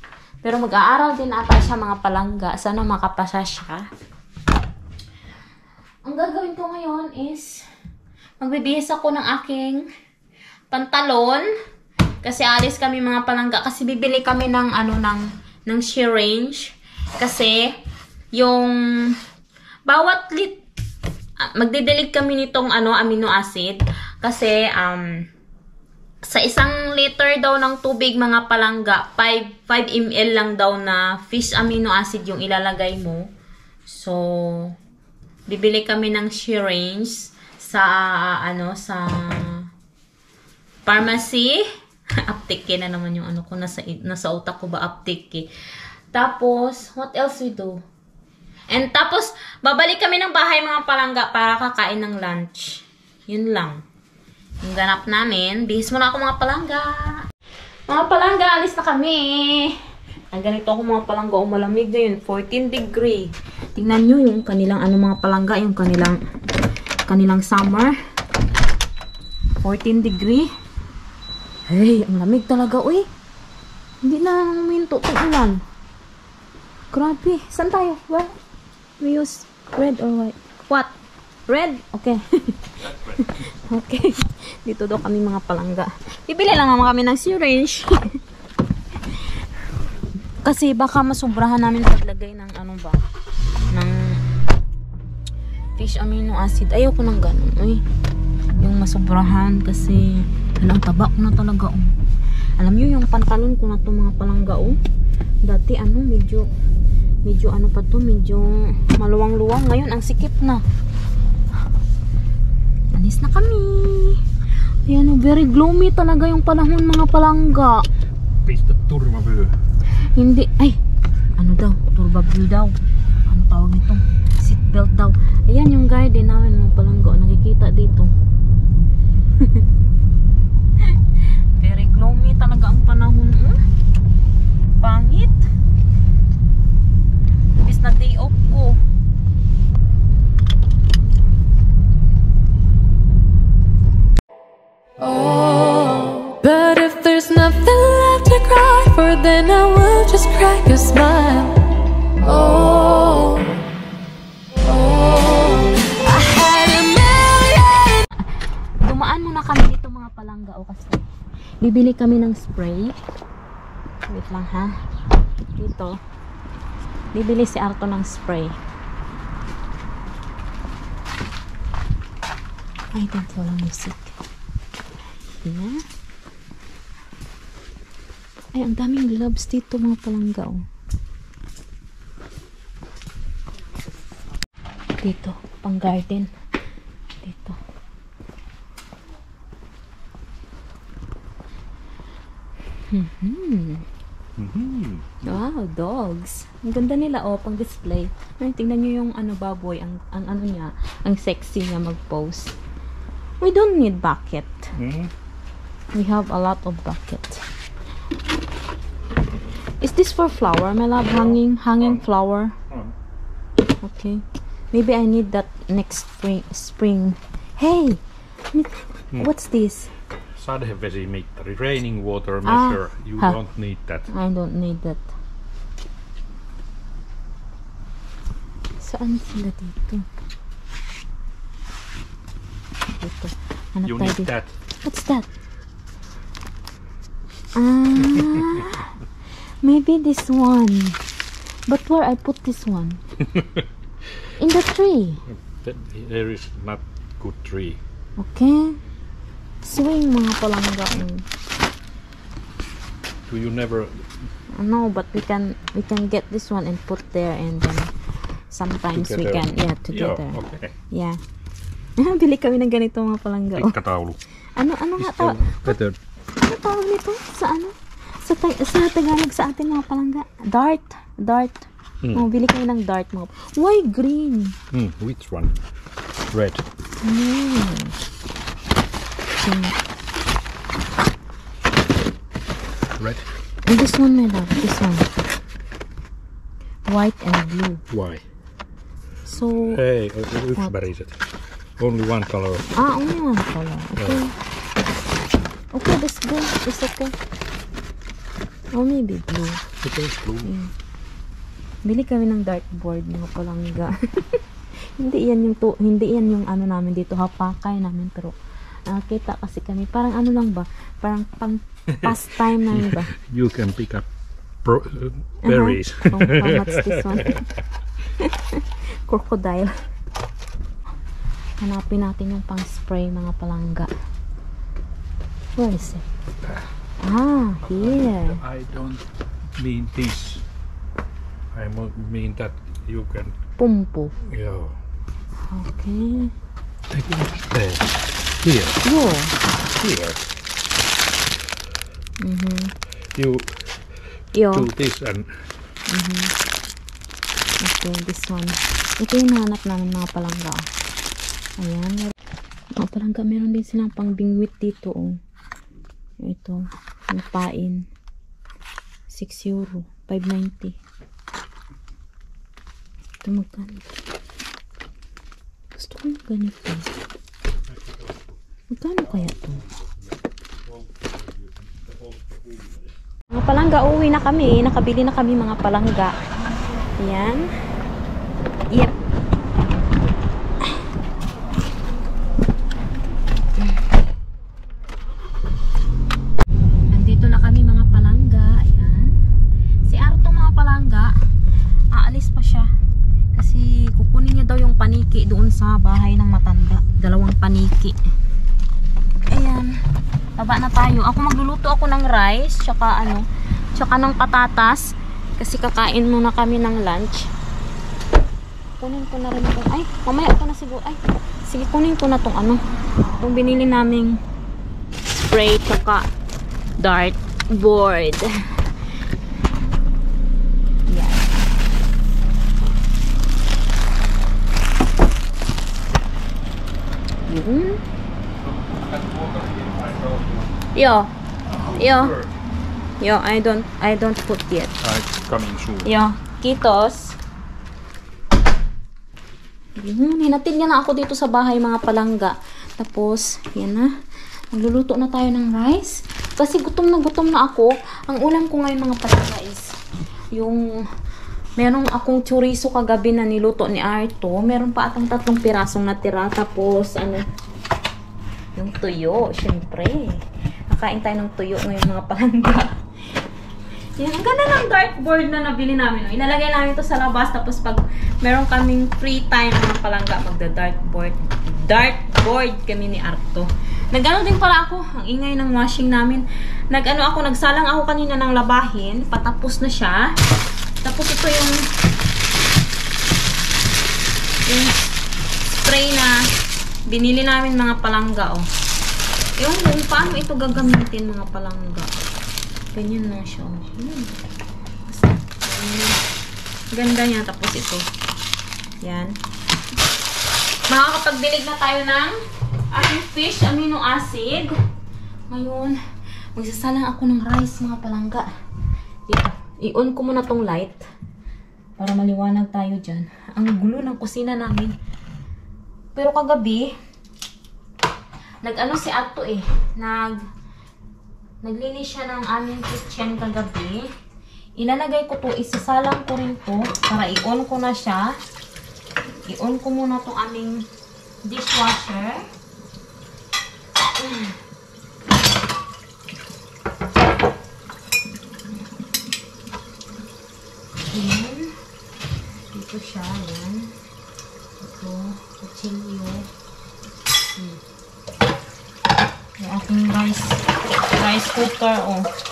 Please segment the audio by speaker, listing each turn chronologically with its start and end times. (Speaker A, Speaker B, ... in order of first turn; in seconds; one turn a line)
Speaker A: 0.4-3.9
Speaker A: 6.1-7.6
Speaker A: 8.4-9.9
Speaker A: 10.7-11.5
Speaker A: 12.2-17.8
Speaker A: 18.4-19.2
Speaker A: 19.9-20.6
Speaker A: 21.4-25.2
Speaker A: 26.2-33.3
Speaker A: 33.9-34.8
Speaker A: 35.5-39.7
Speaker A: 40.9-41.6
Speaker A: 42.2-45.5
Speaker A: 46.1-47.8
Speaker A: 48.7-53.8
Speaker A: 54.6-57.2
Speaker A: 57.9-59.8
Speaker A: 60.3-66.2
Speaker A: 67.1-68.0
Speaker A: 69.6-70.5
Speaker A: 71.7-73.1
Speaker A: 74.0-75.6
Speaker A: 76.9-78.3
Speaker A: 79.0-80.9
Speaker A: 81.5-88.2
Speaker B: 82.8-83.4
Speaker A: 90.4-93.0
Speaker A: 93.7-94.2
Speaker A: 95.8-97.8
Speaker A: 98.6-101.9
Speaker A: 102.6-104.8
Speaker A: 105.5-106.5
Speaker A: 107.3-110.6
Speaker A: 112.9-114.2
Speaker A: 114.9-117.9
Speaker B: 118.5-119.5
Speaker A: 120.2-120.8
Speaker A: 121.4-122.8
Speaker A: 123.3-128.1
Speaker A: 129.4-129.6
Speaker A: 131.6-133.6
Speaker A: 134.8-135.4
Speaker A: 137.6-138.8
Speaker C: 145.0-151.6
Speaker C: 152.2-153.6
Speaker C: 154.6-158.1
Speaker A: 158.8-161.0
Speaker A: 161.6-162.9
Speaker A: 164.1-164.7
Speaker A: 165.6-166.0
Speaker A: 167.1-168.6
Speaker A: 172.9-174.2
Speaker A: 175.4-175.8
Speaker A: 178.6-180.6
Speaker A: 185.0-186.3
Speaker A: 187.2-187.6
Speaker A: 192.9-193.8
Speaker B: 194.4-195.4
Speaker A: 195.2-202.5
Speaker A: 203.4-204.7
Speaker B: 204.8-205.1
Speaker A: 205.9-207.4
Speaker A: 209.8-212.6
Speaker B: 211.1-212.0
Speaker A: 213.8-218.0
Speaker A: 218.5-219.9
Speaker B: 220.3-224.1
Speaker A: 222.4-223.4
Speaker A: 224.1-225.1
Speaker A: 228.8-230.1
Speaker A: 233.0-234.3
Speaker B: 233.8-234.5
Speaker A: 234.8-235.2
Speaker A: 237.6-238.9
Speaker A: 239.6-241.0
Speaker A: 241.7-243.0
Speaker B: 243.3-243.7
Speaker A: 244.4-245.2
Speaker B: 245.3-247.8
Speaker A: 248.2-248.8
Speaker A: 249.6-251.2
Speaker B: 253.3-254.1
Speaker A: 254.6-257.9
Speaker A: 258.5-260.4
Speaker B: 258.9-260.8
Speaker A: 260.9-261.2
Speaker A: 262.0-263.8
Speaker B: 263.6-264.2
Speaker A: 264.6-265.8
Speaker B: 265.0-266.0
Speaker A: 266.4-274.6
Speaker B: 274.7-275.6
Speaker B: 276.3-276.6
Speaker A: 277.0-278.0
Speaker A: 279.4-279.8
Speaker B: 283.0-283.3
Speaker A: 283.7-285.1
Speaker A: 286.9-287.8
Speaker B: 287.9-288.2
Speaker A: 289.2-289.8
Speaker B: 289.7-292.7
Speaker A: 292.8-294.4
Speaker B: 294.0-294.2
Speaker A: 295.7-297.1
Speaker A: 298.7-299.6
Speaker B: 299.8-300.5
Speaker A: 300.4-300.7
Speaker A: 301.9-304.4
Speaker A: 305.0-308.4
Speaker A: 308.9-313.1
Speaker B: 311.9-314.1
Speaker B: 314.6-317.4
Speaker A: 315.4-317.5
Speaker A: 318.1-319.7
Speaker A: 321.6-323.9
Speaker A: 325.6-326.1
Speaker A: 327.0-328.4
Speaker B: 327.6-329.0
Speaker B: 329.6-330.4
Speaker B: 331.5-333.4
Speaker A: 333.6-334.1
Speaker B: 334.2-334.8
Speaker A: 335.5-336.3
Speaker B: 336.9-338.8
Speaker A: 338.8-339.4
Speaker B: 339.7-340.3
Speaker A: 342.2-342.7
Speaker B: 343.1-343.8
Speaker A: 344.3-344.7
Speaker B: 344.5-345.5
Speaker A: 345.9-346.3
Speaker A: 347.6-350.7
Speaker A: 351.6-352.1
Speaker A: 352.8-355.2
Speaker A: 356.2-357.9
Speaker A: 359.1-360.8
Speaker A: 363.2-363.9
Speaker A: 365.8-366.9
Speaker B: 367.7-368.4
Speaker A: 368.7-369.6
Speaker B: 369.1-370.1
Speaker B: 370.7-372.9
Speaker A: 373.3-376.2
Speaker A: 377.0-377.5
Speaker A: 386.9-389.1
Speaker A: 389.9-391.1
Speaker A: 391.9-392.7
Speaker A: 393.4-398.0
Speaker A: 399.3-399.8
Speaker A: 400.4-403.2
Speaker A: 403.8-407.3
Speaker A: 408.8-412.6
Speaker A: 413.2-414.2
Speaker A: 415.1-416.1
Speaker A: 416.8-418.3
Speaker A: 420.9-421.3
Speaker A: 427.3-427.8
Speaker B: 428.4-430.5
Speaker A: 430.8-431.1
Speaker B: 431.6-432.3
Speaker A: 431.8-432.2
Speaker A: 433.0-434.8
Speaker B: 434.8-435.9
Speaker A: 435.9-437.2
Speaker A: 439.8-443.9
Speaker A: 444.5-449.7
Speaker A: 450.3-450.8
Speaker A: 451.6-457.2
Speaker A: 458.6-462.7
Speaker A: 464.0-480.1
Speaker A: 480.8-481.6
Speaker A: 484.5-484.7
Speaker A: 485.6-486.2
Speaker A: 486.9-488.5
Speaker A: 489.4-491.9
Speaker A: 492.7-494.2
Speaker A: 494.9-496.0
Speaker A: 496.7-497.9
Speaker A: 498.8-499.2
Speaker A: 500.7-502.2
Speaker A: 502.7-504.6
Speaker A: 505.3-505.8
Speaker A: 506.4-508.3
Speaker A: 509.1-510.8
Speaker A: 511.8-514.7
Speaker A: 516.0-516.7
Speaker A: 518.4-520.2
Speaker A: 521.4-523.9
Speaker A: 524.6-528.1
Speaker A: 529.3-530.7
Speaker A: 531.2-532.2
Speaker A: 534.0-534.3
Speaker A: 540.9-541.5
Speaker A: 542.5-543.7
Speaker A: 544.6-546.2
Speaker A: 549.4-550.4
Speaker A: 550.9-552.0